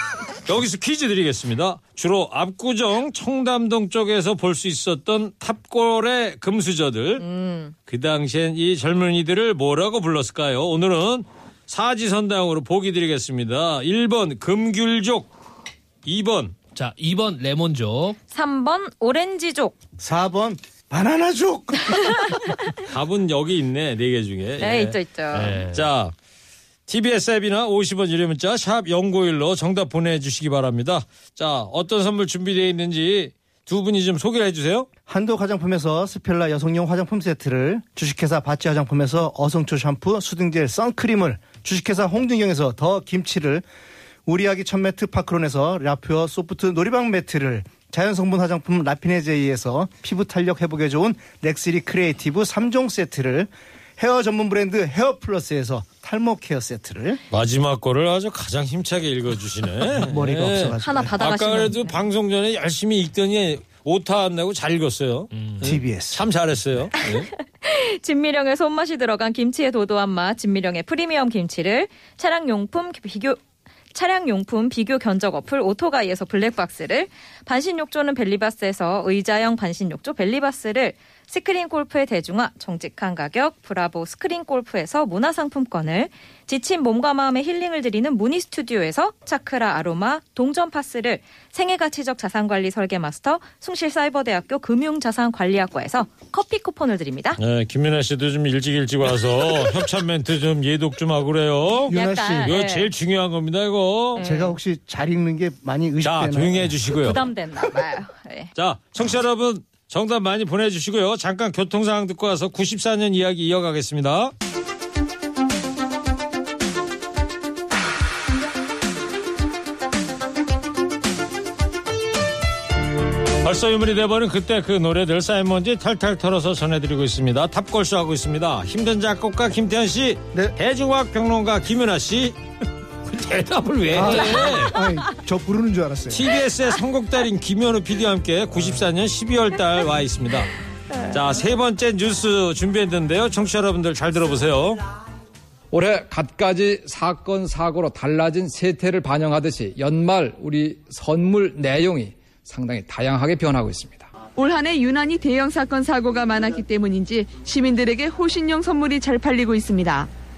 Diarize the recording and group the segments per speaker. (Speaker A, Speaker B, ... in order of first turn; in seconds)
Speaker A: 0.5-7.2, 7.9-15.3, 16.0-16.6, 22.8-25.0, 25.7-26.1, 26.9-34.9, 57.3-67.3, 97.4-104.2, 106.0-107.2, 108.5-114.3, 123.4-132.4, 133.1-134.7, 136.1-140.5, 141.1-144.8
Speaker B: 7.2-7.7, 18.3-19.8, 22.1-22.6, 24.6-25.6, 60.8-62.0, 67.6-73.4, 73.9-97.4, 101.9-102.9, 104.1-104.6, 107.0-108.5, 134.1-135.1
Speaker C: 16.7-18.1, 25.3-25.8, 65.3-65.6
Speaker D: 20.0-22.4, 35.1-43.6, 44.2-57.2, 60.0-61.1, 65.6-66.2, 101.9-102.5, 104.2-106.7, 133.9-136.2
Speaker E: 145.7-154.1
Speaker F: 154.3-160.1